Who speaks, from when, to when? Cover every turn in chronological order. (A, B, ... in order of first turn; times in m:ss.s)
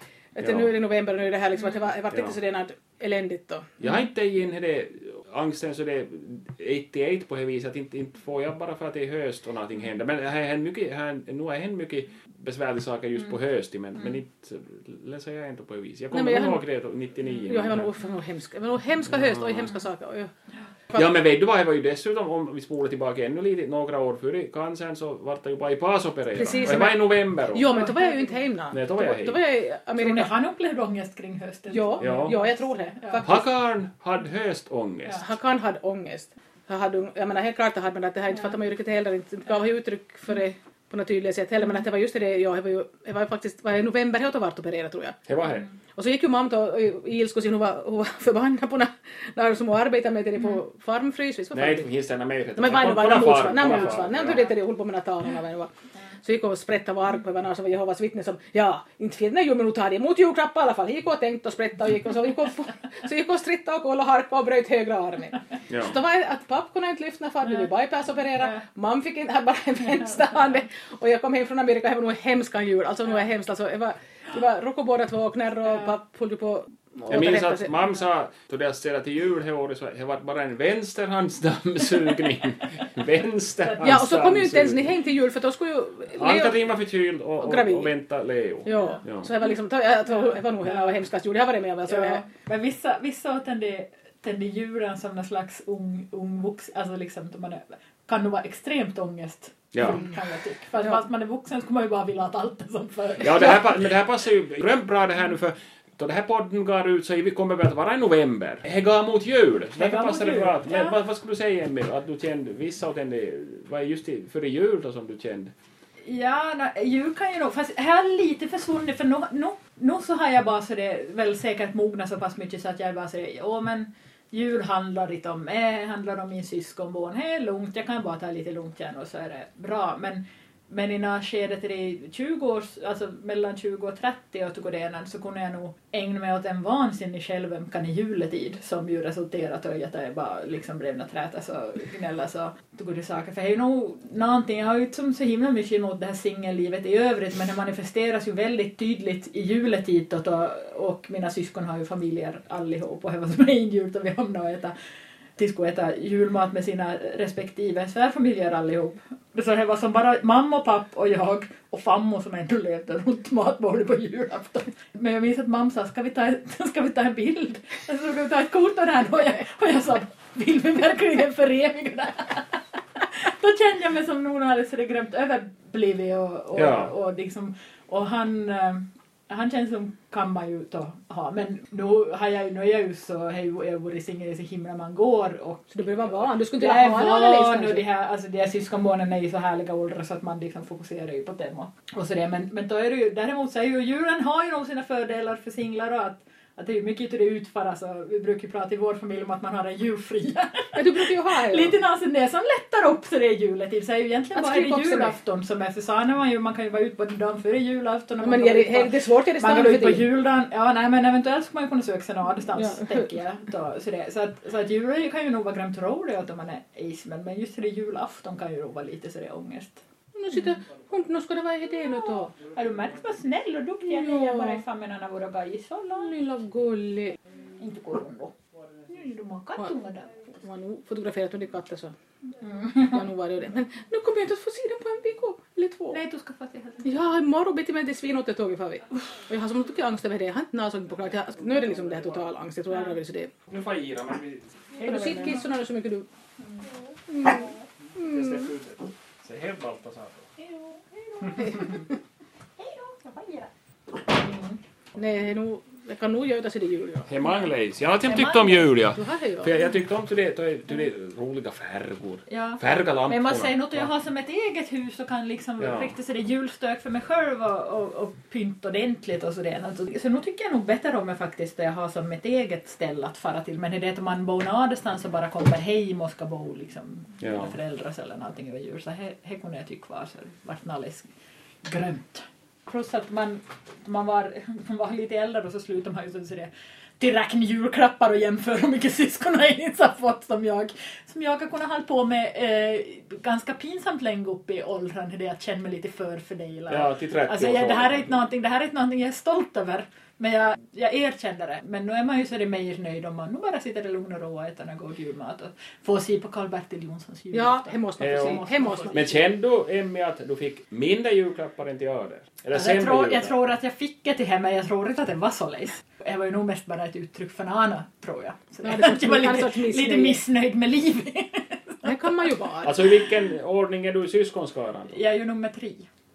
0:00.3-0:03.7 A
0:00.4-0:00.7 B
0:02.1-0:02.4 B
0:03.8-0:17.9 B
0:16.1-0:16.6 A
0:17.5-0:20.3 A
0:19.1-0:19.5 B
0:20.9-0:27.7 B
0:26.3-0:30.3 A
0:26.5-0:26.9 C
0:27.7-0:28.3 C
0:28.7-0:29.4 B
0:30.0-0:33.2 C
0:31.7-0:33.5 A
0:32.0-0:32.4 B
0:33.2-0:35.2 B
0:35.2-0:45.2 A
0:45.3-0:45.6 B
0:45.9-0:51.9 A
0:51.5-0:54.5 B
0:52.6-0:55.7 A
0:53.6-0:54.0 C
0:56.2-1:17.7 A
1:05.7-1:06.0 B
1:17.1-1:25.0 B
1:23.6-1:24.0 C
1:23.8-1:26.5 A
1:26.1-1:29.3 B
1:27.4-1:27.9 A
1:28.6-1:32.2 A
1:28.7-1:29.0 C
1:30.1-1:31.0 C
1:31.8-1:43.8 C
1:39.7-1:40.0 B
1:43.2-1:55.5 B
1:49.8-1:51.0 C
1:56.0-2:34.7 C
2:35.4-3:05.7 C
2:56.5-2:56.9 B
3:05.7-3:07.8 A
3:06.6-3:39.8 C
3:20.7-3:21.8 A
3:24.3-3:25.2 A
3:28.2-3:30.1 A
3:32.5-3:33.0 A
3:40.2-3:42.3 A
3:42.4-3:46.1 C
3:43.8-3:44.6 A
3:46.0-3:47.2 A
3:47.6-3:48.3 C
3:48.9-3:50.1 C
3:50.3-3:51.9 A
3:52.4-3:53.0 C
3:52.9-3:56.0 A
3:55.9-3:56.9 C
3:56.8-4:03.3 A
4:03.5-4:05.4 B
4:04.8-4:06.0 A
4:04.9-4:05.4 C
4:07.1-4:08.5 A
4:08.0-4:10.3 B
4:10.4-4:11.9 C
4:11.4-4:11.8 A
4:12.6-4:13.5 C
4:14.0-4:14.6 C
4:14.9-4:17.1 A
4:17.1-4:23.9 B
4:18.0-4:18.7 C
4:18.9-4:19.5 A
4:22.3-4:41.1 C
4:25.6-4:25.9 B
4:37.2-4:37.5 B
4:41.6-5:09.1 C
4:56.7-4:58.1 B
5:07.3-5:09.2 A
5:08.0-5:13.3 B
5:12.5-5:22.3 C
5:18.6-5:20.2 A
5:21.8-5:22.8 A
5:22.6-5:25.0 B
5:24.9-5:25.9 C